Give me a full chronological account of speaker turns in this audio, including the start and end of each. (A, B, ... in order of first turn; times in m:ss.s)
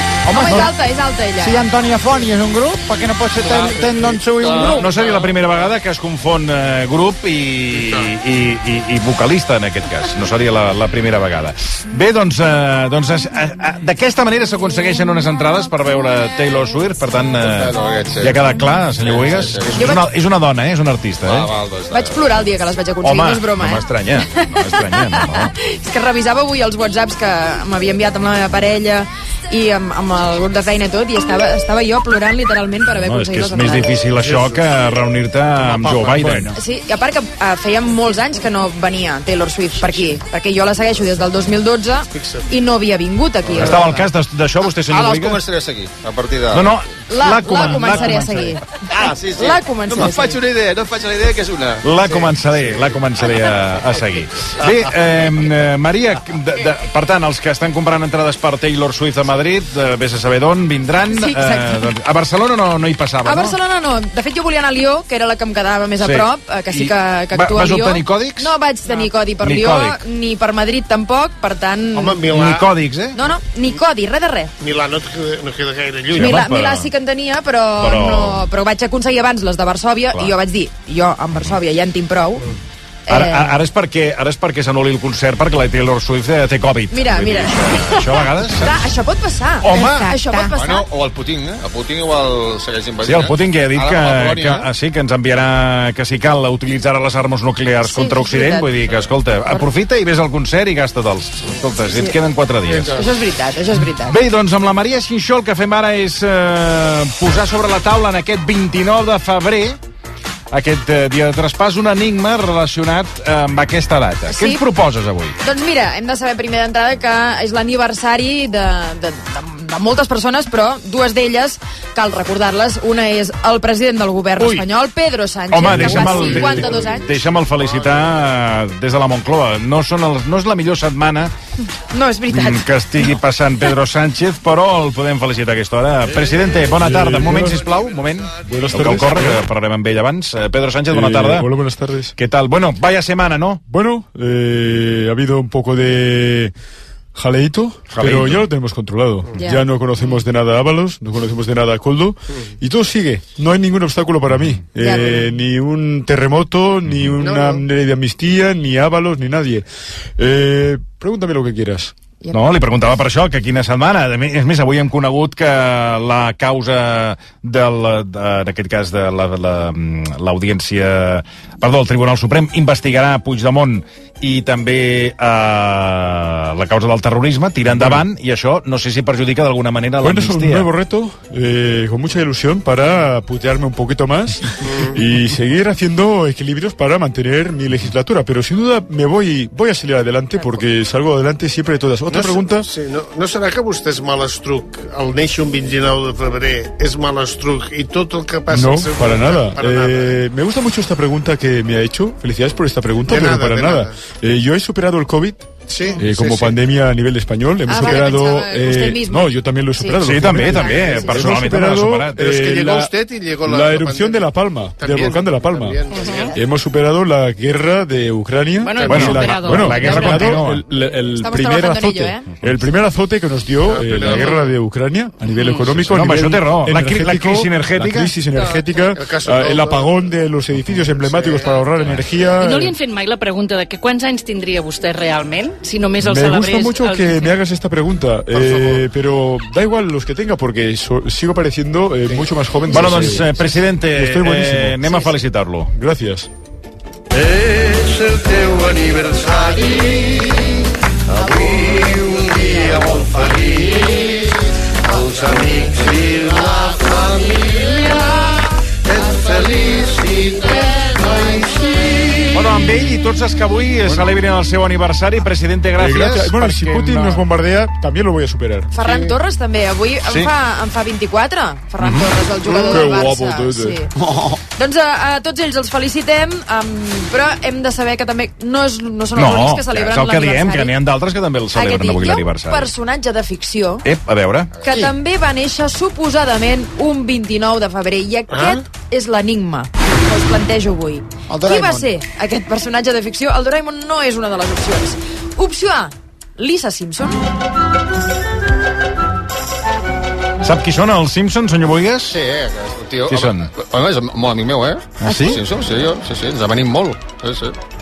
0:00.3-0:01.6 A
0:00.3-0:00.7 B
0:01.4-0:04.8 B
0:03.5-0:03.8 C
0:04.4-0:04.8 C
0:04.6-0:04.8 D
0:04.6-0:21.5 E
0:07.7-0:08.1 F
0:17.4-0:18.4 C
0:19.0-0:19.9 C
0:19.8-0:20.0 A
0:21.2-0:22.3 C
0:21.9-0:23.9 A
0:23.0-0:25.5 E
0:24.8-0:34.0 A
0:33.0-0:36.5 E
0:34.2-0:34.6 F
0:35.8-0:36.4 F
0:36.5-0:44.0 A
0:42.1-0:42.4 F
0:43.6-0:45.4 E
0:44.9-0:46.8 C
0:46.5-0:48.5 E
0:47.1-0:48.6 A
0:48.9-0:51.8 C
0:49.3-0:50.4 A
0:51.8-1:03.6 E
1:01.1-1:01.9 A
1:03.2-1:12.2 A
1:06.0-1:08.5 E
1:09.4-1:10.0 E
1:11.9-1:12.7 F
1:12.3-1:13.2 E
1:13.1-1:14.5 A
1:14.6-1:16.4 F
1:16.1-1:16.9 E
1:16.1-1:22.5 A
1:17.8-1:18.4 E
1:23.1-1:23.5 A
1:23.1-1:28.8 E
1:26.9-1:30.9 A
1:29.6-1:30.1 E
1:30.5-1:34.6 C
1:33.0-1:43.0 E
1:37.8-1:38.7 A
1:41.9-1:42.2 A
1:42.7-1:43.1 F
1:42.9-1:44.2 A
1:44.0-1:49.8 E
1:50.5-1:55.4 E
1:54.3-1:54.6 A
1:55.4-2:07.1 A
2:05.5-2:11.3 E
2:05.7-2:06.6 G
2:11.9-2:12.6 A
2:12.3-2:21.5 E
2:16.8-2:17.6 G
2:18.4-2:19.4 G
2:20.9-2:22.1 G
2:22.2-2:23.6 E
2:23.7-2:26.5 G
2:27.1-2:39.6 G
2:27.9-2:28.4 E
2:29.4-2:29.6 A
2:34.8-2:35.3 A
2:36.9-2:37.2 E
2:37.2-2:37.6 F
2:40.2-2:41.9 G
2:42.3-3:00.7 E
2:57.7-2:58.0 G
3:00.0-3:12.7 G
3:04.6-3:05.0 F
3:12.1-3:20.2 F
3:18.5-3:35.8 G
3:23.0-3:23.9 F
3:25.7-3:26.6 F
3:27.7-3:31.4 A
3:30.0-3:32.2 E
3:32.2-3:36.3 F
3:36.0-3:36.3 D
3:36.0-3:36.2 A
3:36.3-3:52.8 G
3:38.6-3:40.4 D
3:38.9-3:40.6 E
3:41.1-3:42.2 A
3:43.6-3:44.5 F
3:45.4-3:45.7 D
3:45.8-3:48.1 E
3:48.9-3:50.0 F
3:51.0-3:51.7 F
3:52.4-3:57.4 D
3:56.0-4:04.9 G
3:58.3-3:58.8 F
4:02.7-4:05.7 E
4:05.7-4:06.3 G
4:11.2-4:11.7 C
4:12.1-4:12.4 F
4:20.7-4:21.0 F
4:22.3-4:27.2 E
4:25.8-4:28.7 G
4:28.7-4:33.9 A
4:28.8-4:29.1 F
4:30.0-4:30.3 E
4:31.8-4:32.1 E
4:32.5-4:33.8 G
4:34.6-4:40.7 A
4:39.2-4:42.7 E
4:41.5-4:43.8 A
4:43.8-4:44.5 E
4:44.6-4:57.2 A
4:48.3-4:48.6 F
4:51.3-4:51.9 B
5:00.4-5:02.2 E
5:02.1-5:07.6 C
5:03.1-5:03.5 E
5:05.0-5:05.4 E